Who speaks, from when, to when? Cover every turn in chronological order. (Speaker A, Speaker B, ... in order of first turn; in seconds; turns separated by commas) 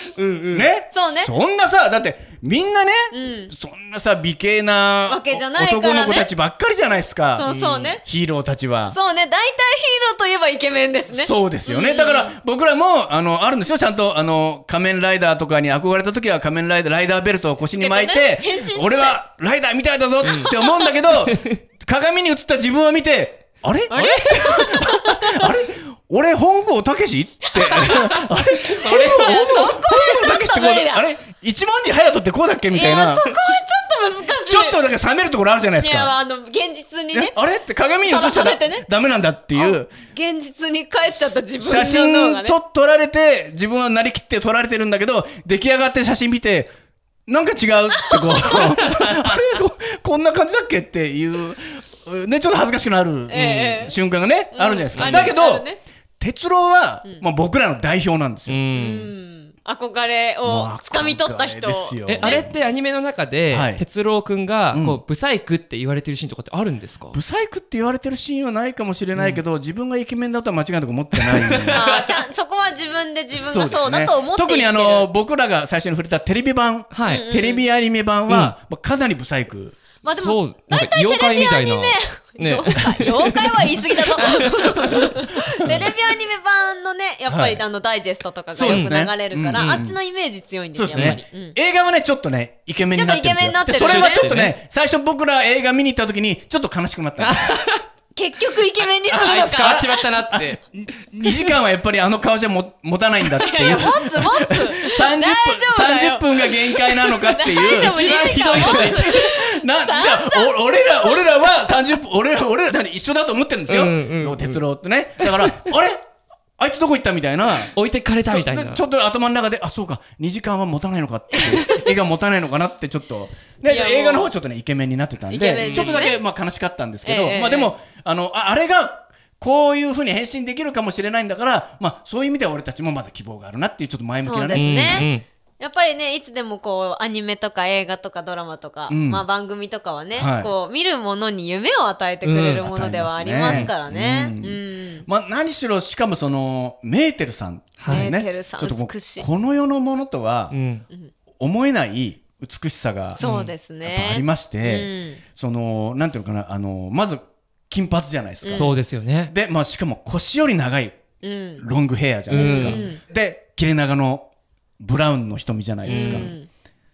Speaker A: 0.1-0.7, Speaker B: 0.5-8.9, Speaker C: 0.9-1.3, Speaker C: 3.1-3.5, Speaker C: 5.1-6.3, Speaker C: 7.3-8.0, Speaker C: 8.9-12.3, Speaker B: 11.1-33.4, Speaker C: 17.7-19.1, Speaker C: 20.2-20.9, Speaker A: 20.2-20.5, Speaker A: 21.3-21.6, Speaker C: 23.9-25.5, Speaker C: 27.5-28.2, Speaker A: 28.7-29.5, Speaker C: 28.7-31.0, Speaker C: 32.7-34.8, Speaker B: 34.4-36.1, Speaker C: 35.8-37.3, Speaker B: 37.1-39.9, Speaker C: 38.0-38.9, Speaker C: 39.5-42.6, Speaker B: 41.6-46.7, Speaker B: 47.3-55.7, Speaker C: 48.1-48.8, Speaker C: 53.3-54.0, Speaker C: 54.5-55.8, Speaker A: 55.0-55.3, Speaker B: 56.2-58.6, Speaker A: 58.5-59.1, Speaker C: 58.7-62.5, Speaker B: 60.4-62.6, Speaker A: 62.1-67.2, Speaker B: 63.5-63.8, Speaker B: 64.7-65.0, Speaker B: 67.1-71.8, Speaker A: 69.1-69.4, Speaker A: 71.2-72.2, Speaker C: 71.7-75.1, Speaker B: 73.3-79.8, Speaker A: 76.9-77.2, Speaker C: 77.0-77.6, Speaker C: 80.0-91.5, Speaker A: 80.1-85.2, Speaker B: 85.6-85.9, Speaker B: 87.3-87.6, Speaker B: 88.5-90.0, Speaker A: 88.6-88.9, Speaker A: 89.5-89.8, Speaker B: 90.7-97.6, Speaker A: 90.9-91.2, Speaker C: 92.9-94.3, Speaker A: 93.7-94.5, Speaker A: 97.2-97.8, Speaker C: 98.1-99.9, Speaker B: 99.1-116.0, Speaker A: 99.1-100.6, Speaker A: 101.2-101.5, Speaker C: 103.4-111.4, Speaker A: 107.5-109.3, Speaker A: 113.7-114.6, Speaker A: 115.2-115.7, Speaker B: 116.6-117.7, Speaker A: 117.7-118.8, Speaker B: 118.2-135.1, Speaker C: 121.5-121.9, Speaker C: 123.7-124.3, Speaker C: 125.3-126.2, Speaker A: 125.6-126.1, Speaker C: 127.0-127.7, Speaker C: 134.2-145.1, Speaker A: 134.5-135.2, Speaker B: 138.9-139.2, Speaker B: 140.1-140.5, Speaker A: 142.2-142.7, Speaker B: 142.6-150.6, Speaker A: 143.4-143.7, Speaker A: 147.8-148.1, Speaker C: 147.9-149.3, Speaker A: 150.5-150.8, Speaker B: 151.4-153.2, Speaker C: 153.1-155.2, Speaker A: 153.2-153.5, Speaker B: 153.8-161.0, Speaker C: 158.4-158.7, Speaker A: 158.5-159.3, Speaker C: 161.2-161.6, Speaker B: 161.6-166.3, Speaker C: 162.3-163.0, Speaker A: 162.3-162.9, Speaker A: 165.9-166.3, Speaker C: 165.9-166.5